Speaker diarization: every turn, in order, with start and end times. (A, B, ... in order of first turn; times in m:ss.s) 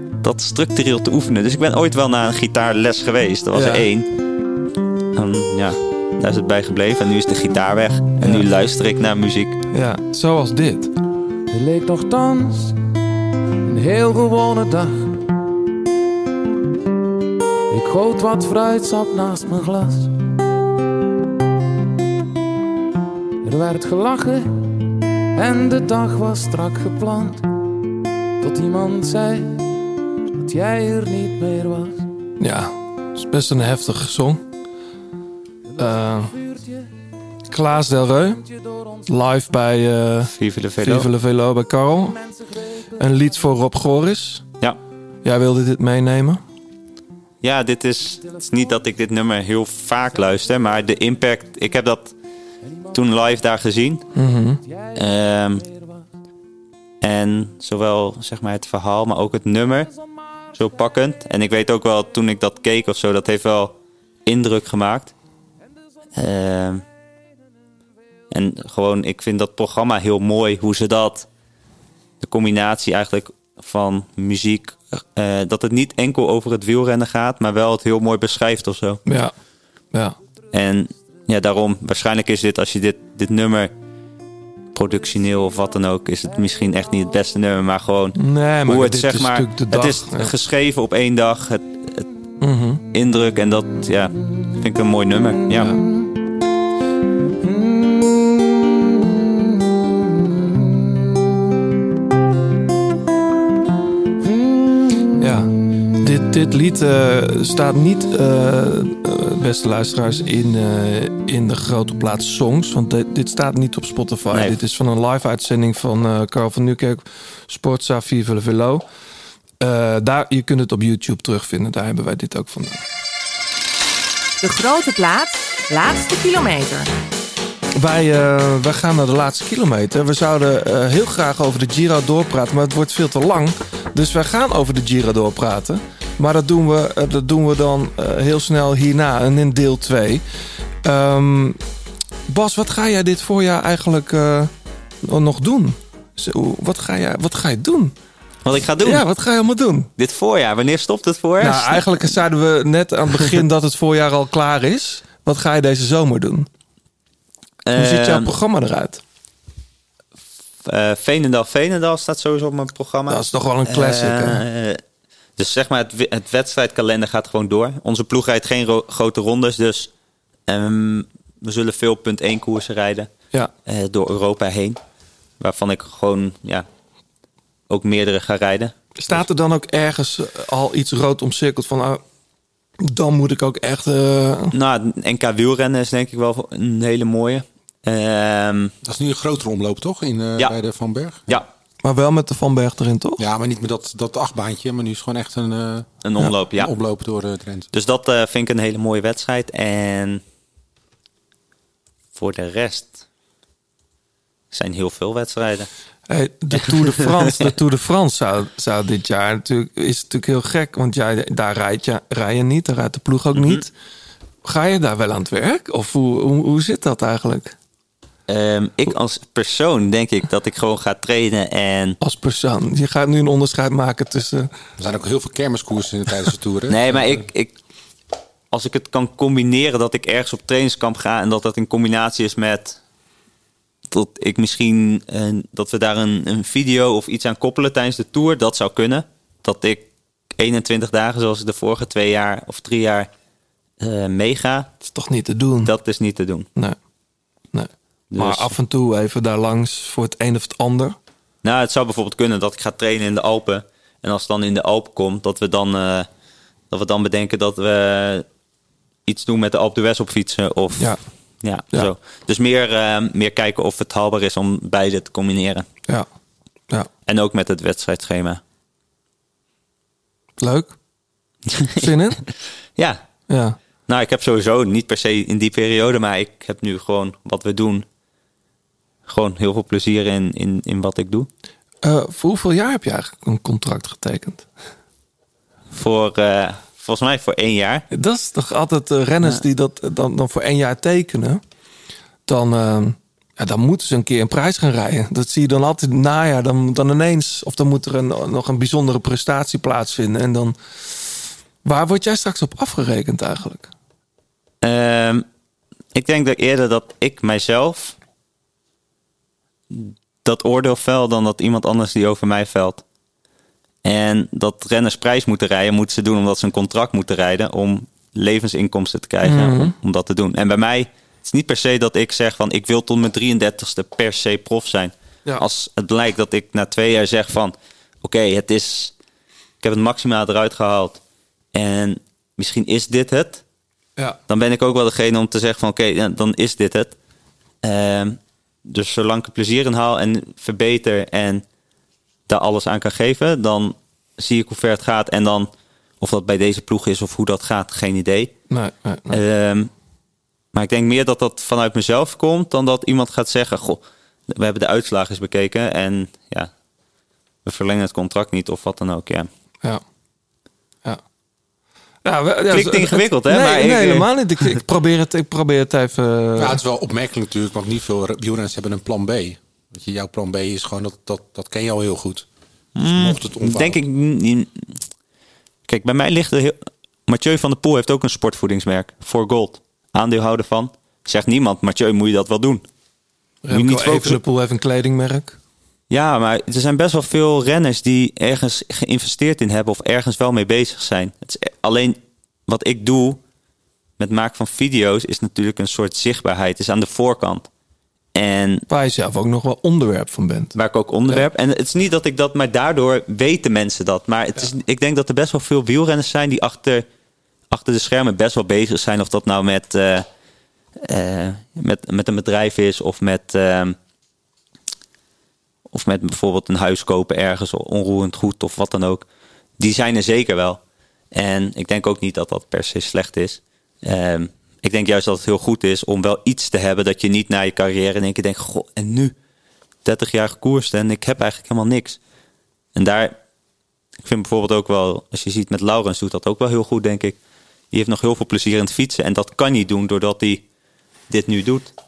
0:00.2-0:04.1 A
0:03.5-0:03.9 B
0:05.2-0:09.6 A
0:08.2-0:08.4 B
0:09.7-0:10.9 B
0:11.5-0:12.8 C
0:13.6-0:15.3 C
0:17.7-0:20.1 C
0:23.4-0:24.7 C
0:25.4-0:27.4 C
0:28.4-0:29.7 C
0:30.4-0:32.0 C
0:32.4-0:34.4 B
0:35.8-0:36.9 C
0:35.8-0:36.3 B
0:37.5-0:38.4 B
0:38.5-0:39.0 C
0:39.1-0:42.2 B
0:40.3-0:41.1 A
0:42.2-0:42.6 C
0:43.0-0:44.4 B
0:45.2-0:46.4 B
0:47.4-0:52.1 A
0:52.9-0:54.1 A
0:54.2-0:54.6 B
0:54.6-0:55.9 C
0:55.0-0:55.6 A
0:57.0-0:59.9 A
1:00.5-1:05.1 A
1:06.2-1:06.8 A
1:08.3-1:11.3 A
1:12.2-1:19.0 A
1:19.1-1:19.3 B
1:20.5-1:23.7 A
1:24.8-1:32.1 A
1:28.2-1:30.3 B
1:32.4-1:32.8 B
1:32.9-1:35.8 A
1:37.4-1:39.3 C
1:40.3-1:40.8 C
1:44.2-1:45.1 C
1:45.2-1:58.8 B
1:54.3-1:54.6 A
1:59.6-2:02.8 B
2:04.4-2:06.9 D
2:07.8-2:20.2 B
2:20.8-2:21.6 B
2:22.3-2:24.5 B
2:25.0-2:27.9 B
2:28.4-2:29.0 A
2:28.8-2:29.9 B
2:30.0-2:32.1 A
2:31.4-2:36.5 B
2:37.7-2:38.3 A
2:37.8-2:39.0 B
2:40.6-2:44.8 A
2:43.1-2:44.4 B
2:45.4-2:49.9 A
2:50.5-2:53.1 A
2:53.6-2:54.8 A
2:55.4-2:56.7 A
2:57.7-2:59.2 A
2:59.0-3:02.0 B
3:02.8-3:04.5 B
3:04.5-3:08.7 A
3:08.8-3:11.3 E
3:11.8-3:13.2 B
3:13.2-3:17.7 E
3:16.0-3:16.7 A
3:17.7-3:20.2 A
3:22.2-3:23.0 A
3:24.5-3:25.7 A
3:26.1-3:33.7 B
3:33.4-3:33.6 A
3:34.4-3:37.6 B
3:38.3-3:42.0 A
3:42.0-3:44.5 B
3:44.8-3:46.8 E
3:46.7-3:47.5 A
3:48.5-3:52.8 A
3:53.9-4:03.1 A
4:03.8-4:04.7 A
4:04.9-4:05.7 B
4:05.6-4:06.5 A
4:07.5-4:11.0 B
4:08.1-4:08.5 A
4:11.4-4:16.1 A
4:16.7-4:18.2 A
4:19.1-4:25.7 A
4:27.1-4:28.4 A
4:30.4-4:30.8 B
4:31.5-4:33.0 A
4:31.8-4:32.2 B
4:33.3-4:33.6 B
4:33.9-4:37.8 A
4:39.1-4:41.3 A
4:41.8-4:44.5 B
4:45.7-4:47.9 A
4:47.9-4:51.4 B
4:52.3-5:01.1 B
5:01.6-5:03.7 B
5:04.6-5:05.2 A
5:05.9-5:08.0 A
5:09.7-5:12.8 A
5:13.8-5:28.9 A
5:19.2-5:19.8 B
5:29.6-5:31.0 A
5:31.5-5:33.4 A
5:34.3-5:36.9 A
5:37.6-5:41.4 A
5:42.3-5:45.5 A
5:46.0-5:48.3 A
5:48.5-5:49.2 B
5:49.1-5:49.7 A
5:50.5-5:56.5 A
5:57.4-5:59.3 A
6:02.0-6:06.6 B
6:02.5-6:04.6 A
6:06.4-6:12.3 E
6:12.8-6:14.8 A
6:12.9-6:13.8 E
6:15.7-6:22.6 A
6:23.4-6:25.4 B
6:23.5-6:24.2 A
6:25.9-6:33.2 A
6:34.0-6:37.5 A
6:38.2-6:38.7 A
6:38.7-6:40.5 B
6:40.6-6:46.8 A
6:47.5-6:50.1 A
6:50.8-6:53.8 A
6:55.7-6:59.0 A
6:59.6-7:00.6 A
7:01.1-7:09.1 A
7:09.8-7:12.0 A
7:12.8-7:13.2 A
7:14.0-7:17.2 A
7:17.7-7:20.4 A
7:21.1-7:21.7 A